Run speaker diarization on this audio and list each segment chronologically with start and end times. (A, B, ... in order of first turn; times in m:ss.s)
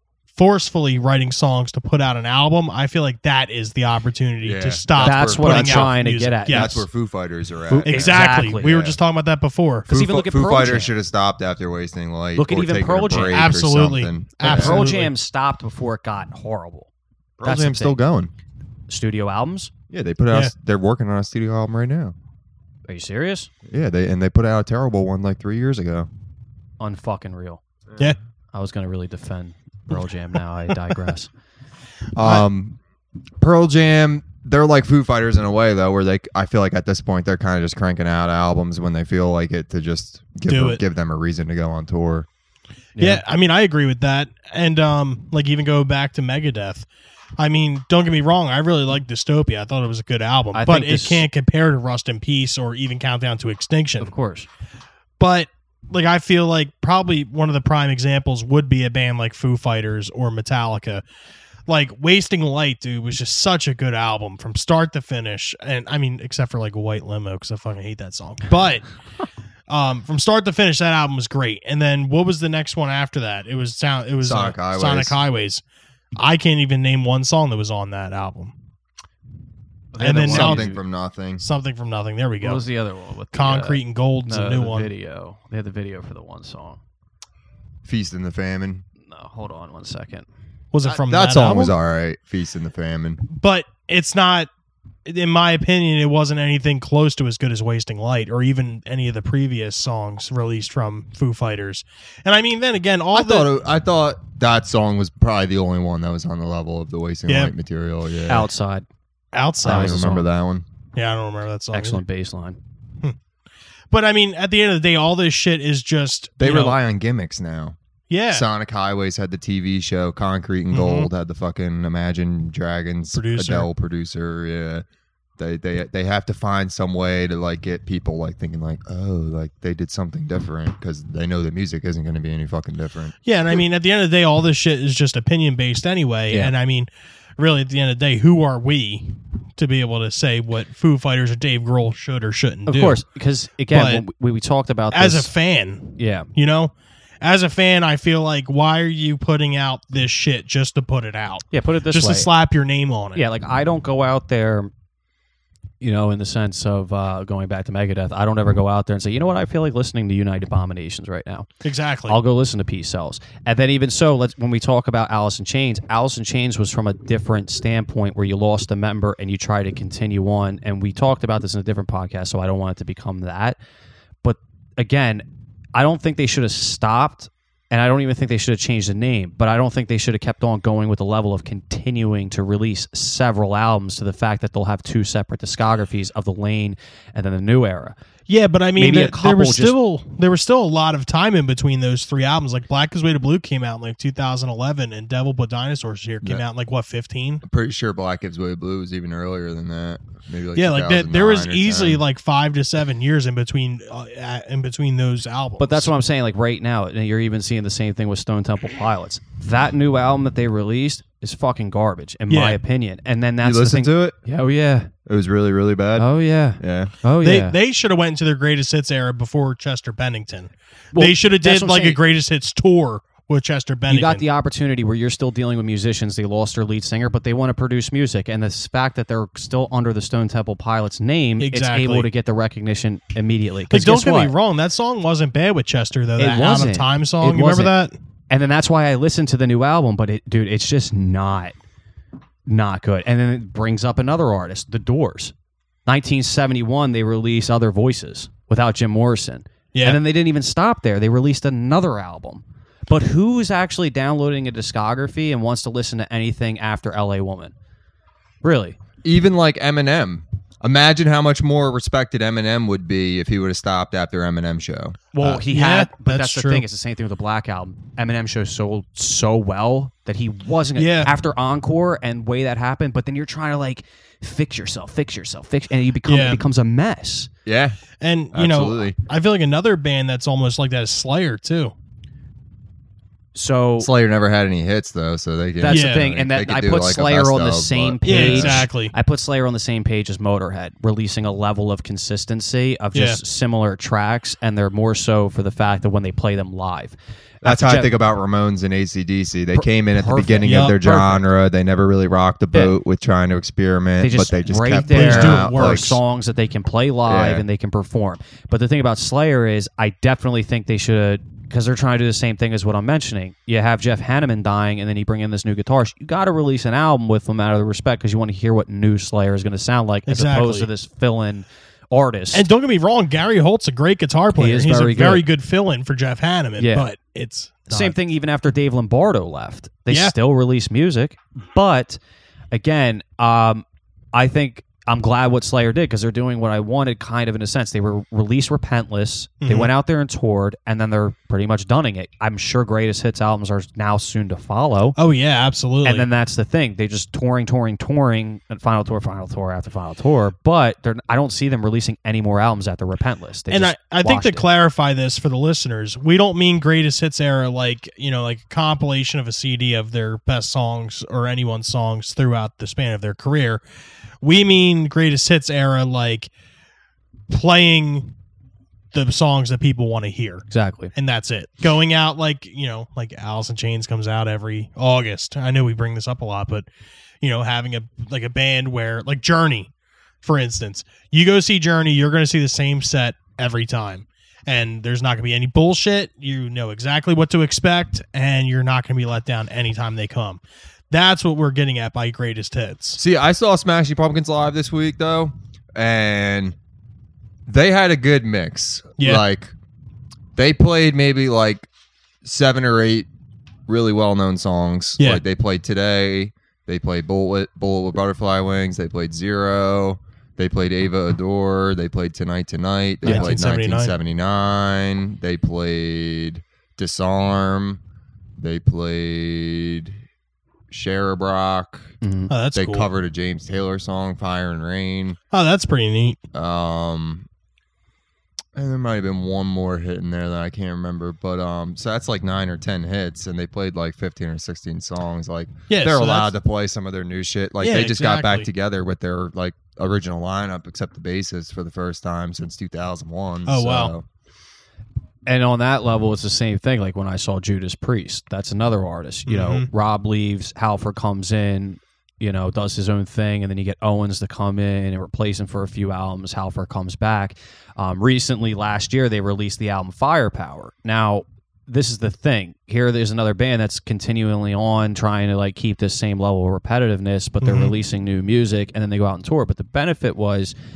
0:00.3-0:06.8 A
0:04.4-0:09.0 B
0:05.0-0:06.8 C
0:07.7-0:08.8 C
0:07.8-0:09.9 A
0:09.9-0:14.9 B
0:09.9-0:10.9 C
0:12.4-0:13.5 C
0:13.3-0:15.1 A
0:14.4-0:16.9 C
0:17.4-0:18.3 B
0:17.4-0:18.0 C
0:18.9-0:19.7 C
0:19.9-0:22.1 B
0:22.9-0:23.5 C
0:23.7-0:26.1 B
0:26.8-0:27.6 C
0:28.5-0:31.3 C
0:32.1-0:32.8 B
0:32.2-0:32.4 A
0:33.4-0:42.3 B
0:40.5-0:40.8 A
0:42.9-0:43.2 C
0:43.0-0:54.1 A
0:50.5-0:51.2 C
0:54.0-0:54.5 C
0:55.2-1:01.0 A
1:01.7-1:08.9 A
1:09.7-1:15.6 A
1:14.2-1:15.2 B
1:16.2-1:18.5 A
1:19.9-1:20.8 C
1:20.0-1:20.7 A
1:20.0-1:21.4 B
1:21.4-1:22.6 A
1:22.4-1:26.8 C
1:23.3-1:24.9 A
1:27.8-1:28.8 B
1:29.0-1:30.2 C
1:30.7-1:31.7 A
1:30.8-1:33.2 B
1:33.2-1:34.5 A
1:35.0-1:43.5 A
1:43.1-1:48.5 B
1:47.2-1:47.5 A
1:48.3-1:48.9 C
1:49.3-1:50.2 A
1:49.6-1:50.3 C
1:49.6-1:50.6 B
1:50.9-1:52.0 A
1:51.7-1:52.6 C
1:53.9-1:56.8 A
1:56.4-1:57.8 B
1:58.1-1:58.4 A
1:58.3-2:04.8 B
2:00.7-2:01.1 A
2:03.1-2:03.7 A
2:05.4-2:13.1 B
2:13.2-2:23.0 A
2:22.6-2:25.3 C
2:23.7-2:24.0 A
2:24.9-2:33.2 A
2:26.0-2:26.3 C
2:31.5-2:32.3 C
2:33.1-2:34.7 C
2:35.8-2:41.5 C
2:41.6-2:42.2 A
2:42.1-2:53.6 C
2:54.2-3:08.0 C
3:08.3-3:17.4 A
3:08.8-3:09.8 C
3:17.4-3:22.0 B
3:20.5-3:25.9 A
3:25.6-3:34.9 C
3:32.3-3:32.6 A
3:33.4-3:34.2 B
3:35.0-3:36.1 B
3:36.0-3:37.6 C
3:36.6-3:36.9 B
3:37.2-3:44.2 A
3:40.9-3:42.0 C
3:43.9-3:54.3 C
3:51.4-3:52.1 A
3:53.7-3:58.0 A
3:56.2-3:57.7 C
3:58.3-4:01.5 C
4:02.5-4:05.3 C
4:05.8-4:17.5 C
4:09.7-4:10.0 A
4:18.4-4:18.8 C
4:19.0-4:25.4 B
4:25.1-4:37.3 C
4:25.4-4:26.6 A
4:30.8-4:31.1 A
4:36.0-4:36.4 A
4:37.4-4:37.8 B
4:38.0-4:41.7 A
4:38.3-4:39.0 B
4:43.3-4:43.9 C
4:43.8-4:48.7 B
4:45.6-4:57.9 C
4:45.7-4:46.1 A
4:48.0-4:48.9 A
4:52.9-4:53.2 A
4:57.4-5:06.0 B
4:59.5-5:01.2 C
5:00.4-5:00.8 A
5:04.0-5:22.4 C
5:04.8-5:06.0 A
5:07.0-5:07.4 B
5:20.0-5:20.7 A
5:22.3-5:28.0 A
5:24.4-5:25.2 C
5:26.6-5:26.9 C
5:27.7-5:32.0 C
5:29.9-5:30.1 A
5:32.5-5:45.0 C
5:39.4-5:39.7 A
5:45.0-5:46.0 A
5:45.8-5:54.4 C
5:53.5-6:03.6 A
6:04.2-6:06.3 A
6:07.3-6:08.2 A
6:08.9-6:16.7 A
6:10.5-6:10.9 C
6:17.2-6:19.7 A
6:20.2-6:33.0 A
6:33.0-6:36.6 B
6:37.5-6:39.5 B
6:39.0-6:39.2 A
6:40.4-6:41.7 B
6:42.2-6:43.1 B
6:43.7-6:57.8 B
6:53.0-6:53.9 A
6:53.0-6:53.3 C
6:58.4-7:00.0 B
7:00.7-7:01.9 B
7:02.0-7:02.3 C
7:02.3-7:02.9 A
7:02.5-7:05.2 B
7:05.3-7:06.2 A
7:06.3-7:07.3 B
7:08.5-7:24.0 B
7:15.7-7:16.3 A
7:17.6-7:18.5 A
7:23.4-7:23.9 A
7:25.3-7:50.5 C
7:29.2-7:29.7 A
7:47.4-7:47.7 A